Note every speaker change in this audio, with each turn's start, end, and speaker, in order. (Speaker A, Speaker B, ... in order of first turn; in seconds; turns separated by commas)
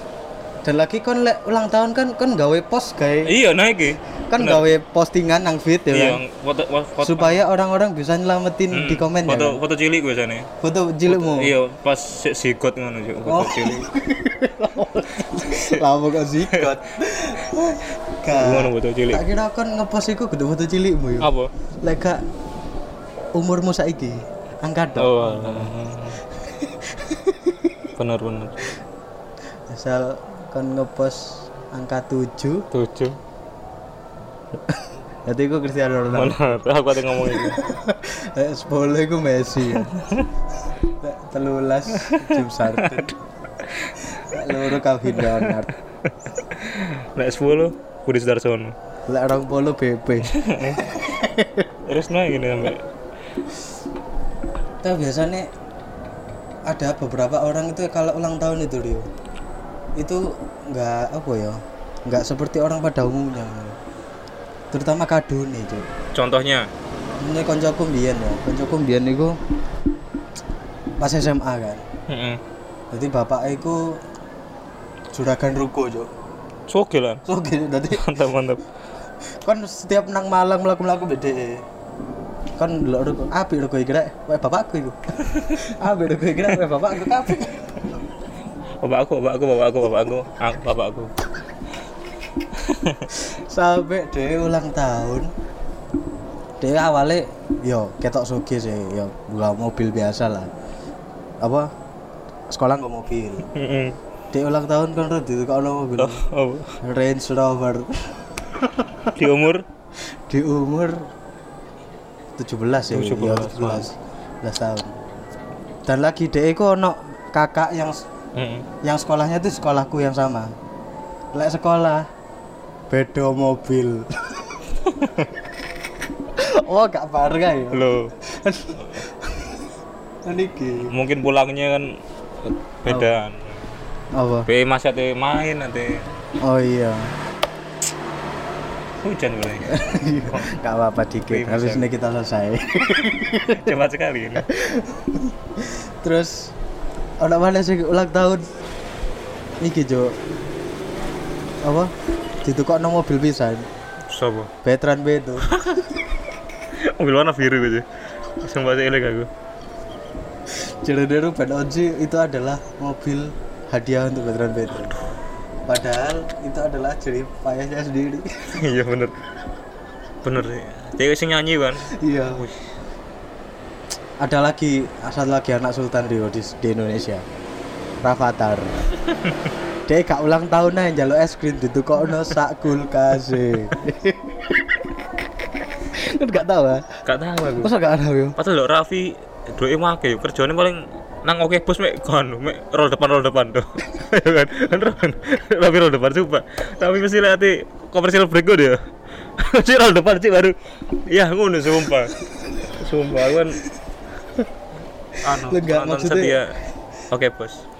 Speaker A: 0.6-3.3, Speaker B: 3.2-4.7, Speaker A: 4.3-6.2, Speaker B: 5.9-7.4, Speaker A: 7.0-9.6, Speaker B: 8.7-10.5, Speaker A: 10.6-11.5, Speaker B: 11.1-13.9, Speaker A: 13.2-21.3, Speaker B: 15.5-15.8, Speaker B: 18.4-19.2, Speaker B: 21.2-21.5, Speaker A: 21.8-22.2, Speaker A: 23.4-25.7, Speaker B: 25.0-26.2, Speaker A: 26.4-27.3, Speaker B: 27.9-28.6, Speaker A: 29.7-32.6, Speaker B: 32.7-33.2, Speaker A: 34.7-36.5, Speaker B: 36.1-37.6, Speaker A: 37.2-39.9, Speaker B: 39.7-40.3, Speaker A: 41.0-43.1, Speaker B: 42.0-43.1, Speaker A: 44.1-45.7, Speaker B: 45.1-45.6, Speaker B: 46.3-48.7, Speaker A: 49.1-51.7, Speaker B: 50.2-50.8, Speaker B: 51.9-52.8, Speaker A: 54.8-55.5, Speaker A: 56.6-59.1, Speaker A: 60.0-63.8, Speaker A: 64.7-65.9, Speaker B: 66.1-66.7, Speaker A: 67.2-69.3, Speaker A: 71.0-71.8, Speaker B: 72.1-72.4, Speaker A: 72.9-74.0, Speaker A: 75.1-76.1, Speaker B: 76.7-77.2, Speaker A: 77.2-78.0, Speaker B: 77.9-78.6, Speaker A: 79.4-81.6, Speaker A: 82.6-87.9, Speaker B: 88.8-91.1, Speaker B: 92.6-93.0, Speaker A: 93.3-95.3, Speaker A: 96.6-100.5, Speaker A: 102.5-103.5, Speaker B: 103.5-104.0, Speaker A: 104.3-106.2, Speaker B: 106.0-106.7, Speaker A: 106.8-107.9, Speaker A: 108.5-109.1, Speaker B: 109.2-109.6, Speaker A: 110.3-111.0, Speaker A: 112.4-114.9, Speaker B: 112.9-113.9, Speaker A: 115.8-118.0, Speaker B: 118.3-118.7, Speaker A: 118.8-120.5, Speaker A: 121.3-122.0, Speaker A: 122.9-124.4, Speaker B: 124.9-125.3, Speaker A: 126.3-129.5, Speaker B: 127.7-128.1, Speaker A: 130.2-130.9, Speaker B: 130.9-131.9, Speaker B: 132.4-133.6, Speaker A: 132.9-133.1, Speaker A: 134.2-134.5, Speaker B: 134.5-136.1, Speaker A: 136.4-137.1, Speaker B: 139.0-140.4, Speaker A: 139.7-143.7, Speaker B: 141.2-141.9, Speaker B: 143.5-144.5, Speaker A: 144.4-146.5, Speaker A: 147.2-148.4, Speaker A: 149.6-150.1, Speaker A: 151.6-151.9, Speaker A: 152.4-153.7, Speaker B: 154.1-154.5, Speaker A: 154.6-155.5, Speaker B: 155.4-155.8, Speaker B: 156.8-157.8, Speaker B: 158.4-159.3, Speaker A: 160.8-164.9, Speaker A: 165.7-168.5, Speaker B: 168.6-169.1, Speaker B: 170.2-172.5, Speaker A: 171.9-172.5, Speaker A: 174.2-177.2, Speaker A: 178.0-178.8, Speaker A: 179.9-184.9, Speaker A: 185.8-186.8, Speaker B: 187.1-187.7, Speaker A: 187.6-188.4, Speaker B: 188.4-198.8, Speaker B: 199.4-203.6, Speaker B: 205.2-206.6, Speaker A: 205.4-206.4, Speaker B: 207.1-207.6